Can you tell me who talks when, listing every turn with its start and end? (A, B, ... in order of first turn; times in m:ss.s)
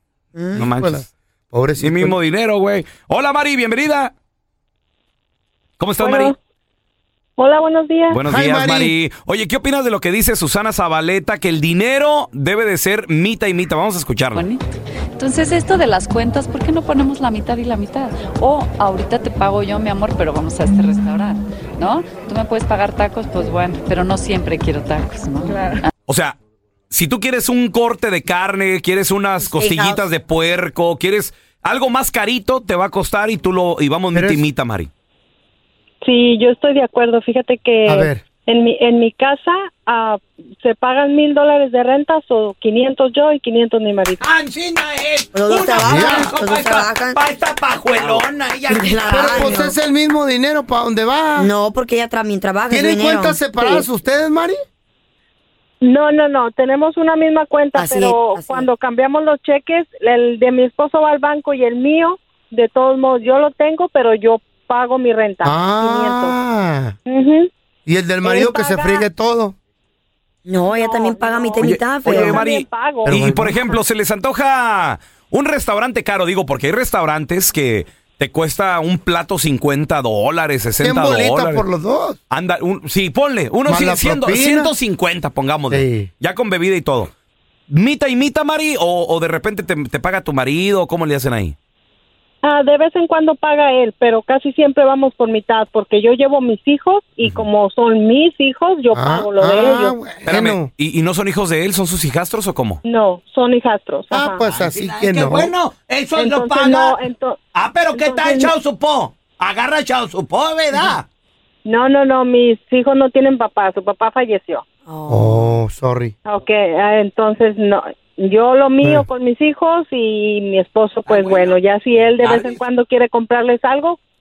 0:00.3-0:00.7 A
0:00.6-0:01.0 B
0:00.6-0:02.2 C
0:01.8-0:04.1 B
0:05.8-0:06.3 B
0:06.0-0:06.3 D
0:07.4-0:08.2 D
0:08.1-0:14.4 B
0:08.2-0:08.9 C
0:14.3-0:14.6 E
0:15.2-0:25.9 E
0:26.1-0:26.4 B
0:26.9-0:34.9 B
0:29.4-0:30.0 A
0:34.1-0:34.4 C
0:36.0-0:44.2 D
0:37.8-0:38.2 C
0:44.2-0:49.5 F
0:45.3-0:47.2 A
0:45.8-0:46.3 C
0:48.7-0:49.8 A
0:49.1-0:51.5 C
0:51.4-0:53.9 A
0:52.7-0:54.6 C
0:55.8-1:06.4 D
0:57.7-0:58.7 A
1:05.4-1:07.0 C
1:07.1-1:07.5 D
1:07.8-1:09.5 C
1:08.2-1:09.1 D
1:10.4-1:12.4 A
1:10.7-1:13.2 D
1:11.6-1:21.6 B
1:13.1-1:13.6 C
1:20.8-1:22.2 C
1:22.3-1:27.1 B
1:23.6-1:24.7 C
1:25.7-1:26.1 C
1:27.7-1:31.5 B
1:32.4-1:40.0 D
1:38.9-1:40.7 C
1:40.2-1:42.8 B
1:42.8-1:44.4 D
1:44.1-1:45.5 C
1:44.5-1:47.0 F
1:46.2-1:47.4 D
1:47.5-1:51.0 F
1:47.9-1:48.5 D
1:51.6-1:54.6 D
1:54.9-1:55.6 A
1:55.1-1:56.1 C
1:56.2-2:04.0 D
2:01.0-2:02.6 F